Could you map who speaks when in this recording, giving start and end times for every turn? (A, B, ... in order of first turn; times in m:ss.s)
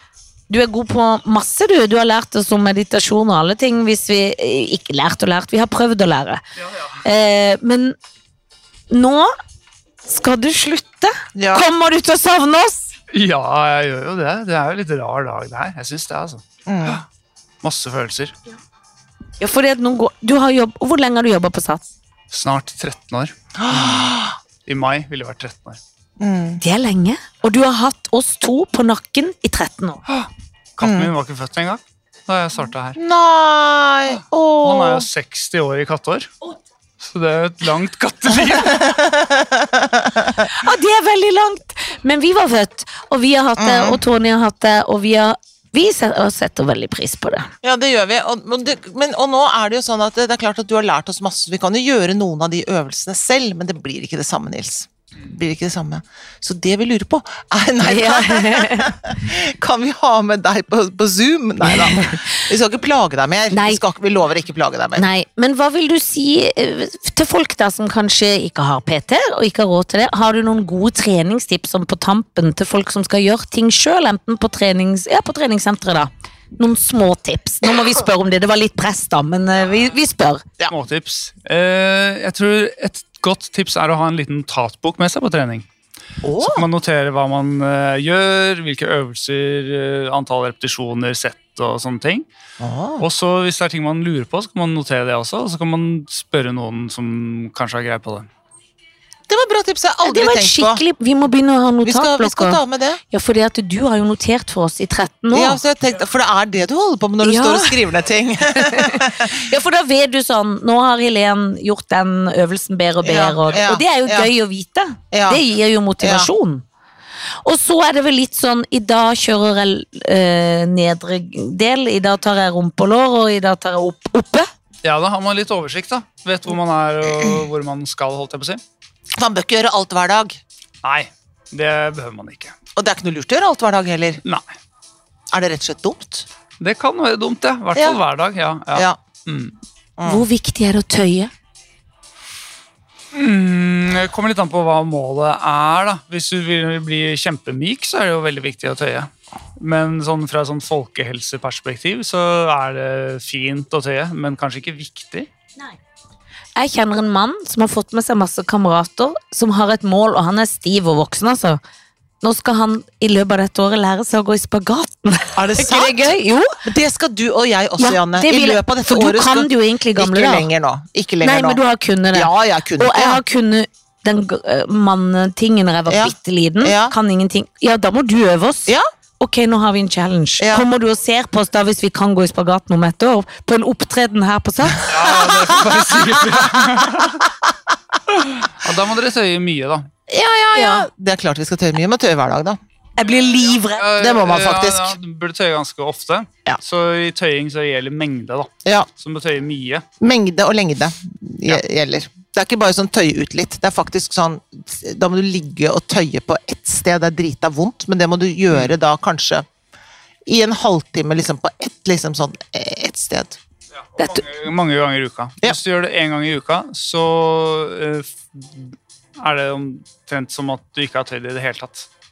0:00.5-0:06.4 A
0:07.0-0:08.0 A
0:08.9-0:09.4 A
0:10.0-0:12.9 A
0:11.3-0:11.6 B
0:13.1-0:17.0 C
0:16.7-0:17.0 B
0:17.6-0:18.3 C
0:19.4-0:21.9 A
0:22.3-0:24.1 C
0:23.6-0:24.4 B
0:24.6-0:25.8 C
0:26.2-0:26.6 B
0:26.6-0:30.0 A
0:30.1-0:33.0 C
0:30.8-0:31.1 B
0:33.0-0:35.1 B
0:34.6-0:36.3 C
0:37.0-0:39.0 C
0:38.7-0:40.5 B
0:40.4-0:47.5 A
0:43.6-0:44.0 B
0:47.6-1:05.1 B
0:57.8-0:58.9 A
1:01.6-1:02.4 A
1:03.5-1:03.8 A
1:04.9-1:20.4 A
1:20.7-1:25.6 C
1:26.2-1:26.7 B
1:26.4-1:32.2 C
1:32.6-1:33.0 B
1:33.0-1:38.3 C
1:39.3-1:40.8 B
1:40.0-1:45.6 A
1:41.8-1:43.0 B
1:45.3-1:49.4 B
1:47.2-1:47.8 A
1:48.5-1:56.6 A
1:53.0-1:54.3 B
1:55.1-1:55.4 B
1:56.0-1:56.3 B
1:57.4-2:04.5 A
2:04.8-2:08.6 C
2:09.2-2:10.4 B
2:10.8-2:12.5 C
2:12.8-2:14.2 B
2:15.3-2:16.3 B
2:16.6-2:19.5 C
2:17.7-2:18.0 B
2:18.7-2:19.0 B
2:20.0-2:20.2 B
2:20.0-2:21.3 A
2:23.1-2:35.3 C
2:36.6-2:41.6 A
2:42.2-2:46.6 A
2:45.3-2:46.1 B
2:46.6-2:51.6 B
2:47.8-2:50.5 A
2:51.2-3:04.8 A
2:52.1-2:53.2 B
2:55.9-2:56.9 B
3:00.4-3:00.6 B
3:04.8-3:07.2 C
3:05.1-3:05.6 B
3:06.4-3:06.6 B
3:08.1-3:09.9 C
3:10.1-3:12.6 B
3:10.5-3:10.9 A
3:13.0-3:13.8 A
3:13.8-3:19.8 C
3:14.0-3:15.0 B
3:20.0-3:29.4 B
3:30.2-3:33.4 B
3:34.0-3:41.9 C
3:34.0-3:34.2 A